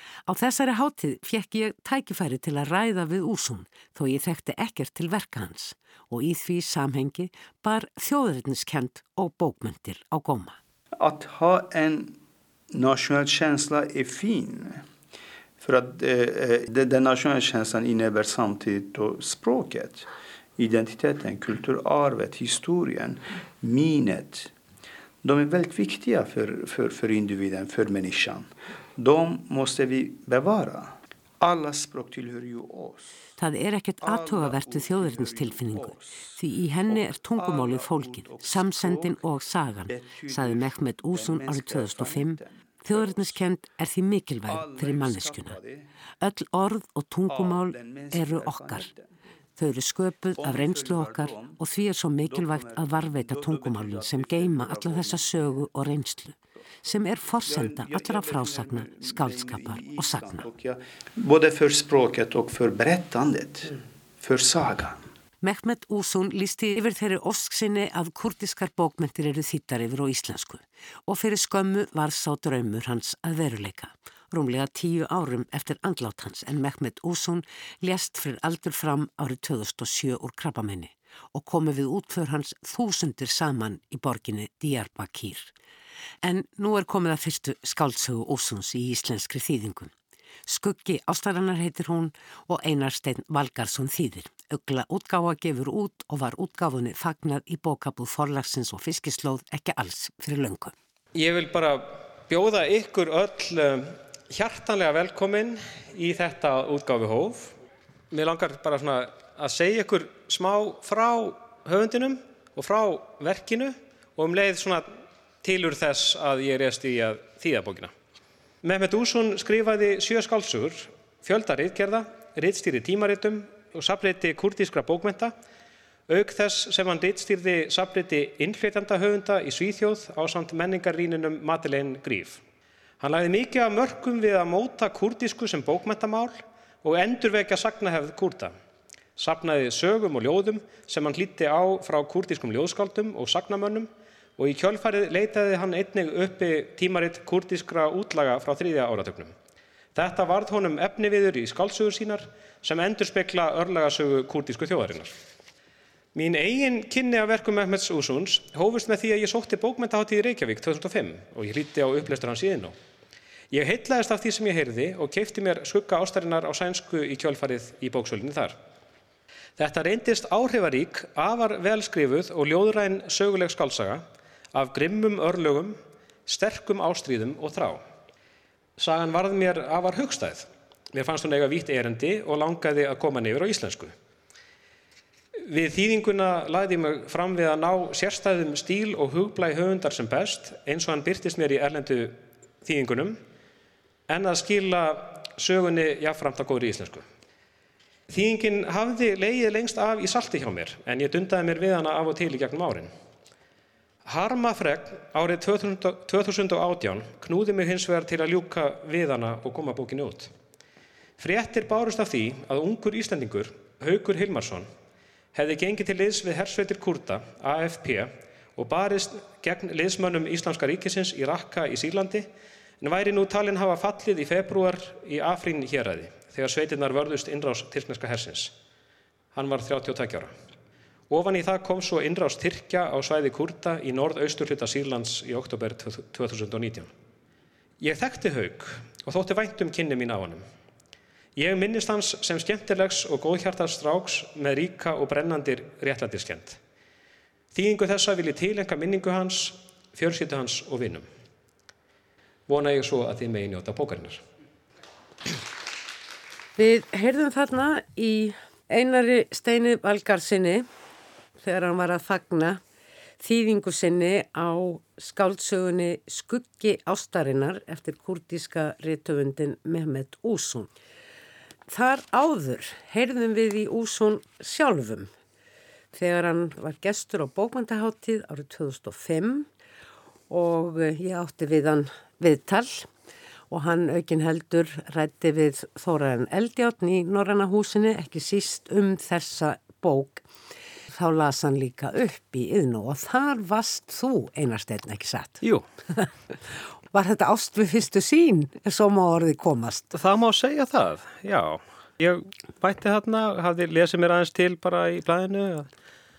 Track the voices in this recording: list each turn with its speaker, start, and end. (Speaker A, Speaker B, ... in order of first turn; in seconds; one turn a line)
Speaker A: 0.3-10.6
Speaker B: 11.0-12.2
Speaker B: 12.7-14.8
Speaker B: 15.6-24.5
Speaker B: 25.2-33.2
Speaker A: 33.4-45.5
Speaker B: 34.0-36.4
Speaker B: 36.9-39.2
Speaker B: 39.9-43.3
Speaker B: 44.5-45.9
Speaker A: 46.2-48.9
Speaker B: 47.3-49.1
Speaker A: 49.6-60.5
Speaker B: 50.4-51.6
Speaker B: 52.2-55.4
Speaker B: 57.4-65.0
Speaker A: 65.4-85.5
Speaker A: 86.2-89.9
Speaker A: 90.5-100.7
Speaker C: 101.1-107.5
Speaker C: 108.1-114.9
Speaker C: 115.4-117.9
Speaker C: 118.6-125.3
Speaker C: 126.1-132.4
Speaker C: 133.0-138.5
Speaker C: 139.2-149.3
Speaker C: 149.9-155.2
Speaker C: 156.1-162.8
Speaker C: 163.5-168.6
Speaker C: 169.6-177.8
Speaker C: 178.8-183.9
Speaker C: 185.4-193.2
Speaker C: 194.1-197.1
Speaker C: 198.1-202.9
Speaker C: 204.1-210.3
Speaker C: 211.2-214.7
Speaker C: 215.3-222.3
Speaker C: 222.8-228.5
Speaker C: 229.3-230.3
Speaker C: 231.1-236.9
Speaker C: 237.8-240.4
Speaker C: 241.4-246.6
Speaker C: 247.5-251.1
Speaker C: 252.5-254.2
Speaker A: 256.6-260.7
Speaker A: 261.4-262.6
Speaker A: 263.2-270.7
Speaker A: 271.7-275.1
Speaker A: 275.9-279.5
Speaker A: 280.3-282.9
Speaker A: 283.5-290.2
Speaker A: 290.9-295.4
Speaker A: 296.9-299.9
Speaker C: 299.9-305.7